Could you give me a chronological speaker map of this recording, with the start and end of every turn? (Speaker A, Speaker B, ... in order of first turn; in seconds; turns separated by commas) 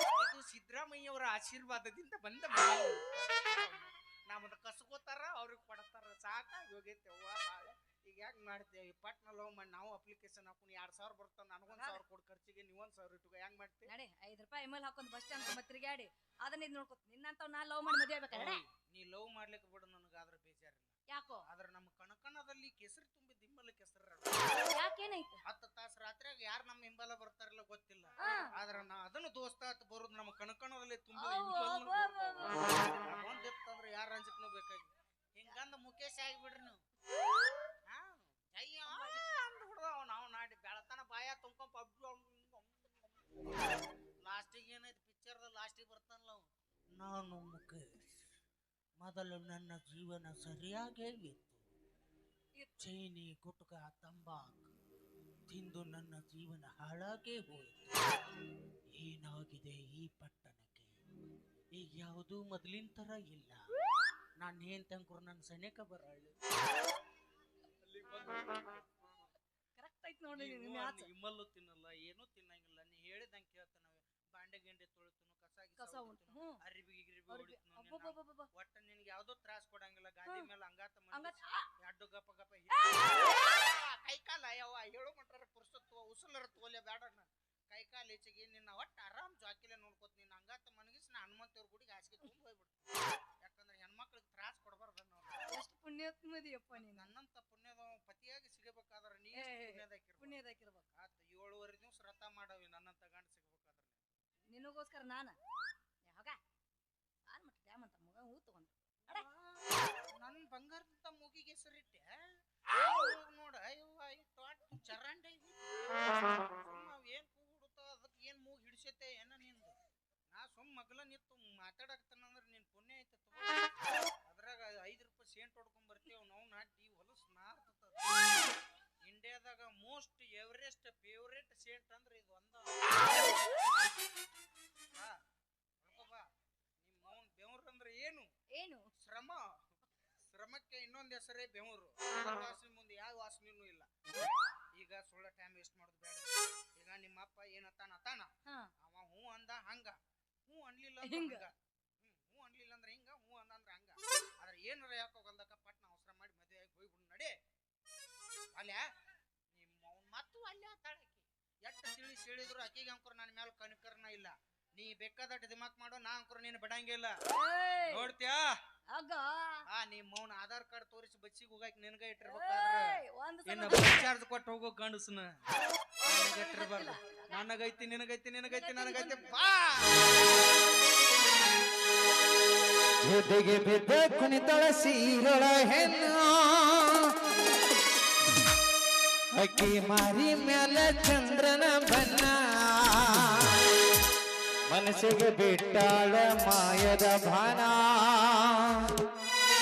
Speaker A: 0.1-13.9, Speaker B: 11.7-12.0, Speaker B: 13.9-18.6, Speaker A: 18.3-24.6, Speaker B: 21.1-21.4, Speaker B: 24.7-25.4, Speaker A: 25.4-36.8, Speaker B: 28.2-28.5, Speaker B: 31.2-33.0, Speaker A: 37.9-43.2, Speaker B: 38.9-39.2, Speaker A: 44.2-48.0, Speaker A: 49.0-51.6, Speaker B: 52.5-52.9, Speaker A: 52.8-54.7, Speaker A: 55.5-58.1, Speaker A: 58.9-60.9, Speaker A: 61.7-63.6, Speaker A: 64.4-66.4, Speaker A: 67.8-68.9, Speaker B: 69.8-71.1, Speaker A: 70.3-95.4, Speaker B: 75.8-76.6, Speaker B: 77.3-78.5, Speaker B: 81.1-81.7, Speaker B: 82.7-83.5, Speaker B: 95.5-97.1, Speaker A: 96.7-100.4, Speaker B: 99.4-100.9, Speaker A: 101.0-104.0, Speaker B: 104.5-105.4, Speaker B: 106.1-106.4, Speaker B: 107.3-109.2, Speaker A: 109.0-112.2, Speaker A: 112.7-115.7, Speaker A: 116.5-119.8, Speaker A: 120.3-123.7, Speaker A: 124.2-128.2, Speaker A: 129.0-133.7, Speaker A: 135.8-136.3, Speaker A: 136.8-138.3, Speaker B: 138.5-138.9, Speaker A: 139.0-139.6, Speaker A: 140.3-157.3, Speaker B: 151.0-151.4, Speaker A: 158.5-158.8, Speaker A: 159.5-167.2, Speaker B: 167.3-168.1, Speaker A: 167.8-168.5, Speaker B: 168.9-169.6, Speaker A: 169.7-175.3, Speaker B: 172.2-174.1, Speaker B: 176.0-177.4, Speaker A: 176.0-180.1, Speaker B: 178.5-179.4, Speaker C: 183.0-187.1, Speaker C: 189.3-193.7, Speaker C: 194.7-199.1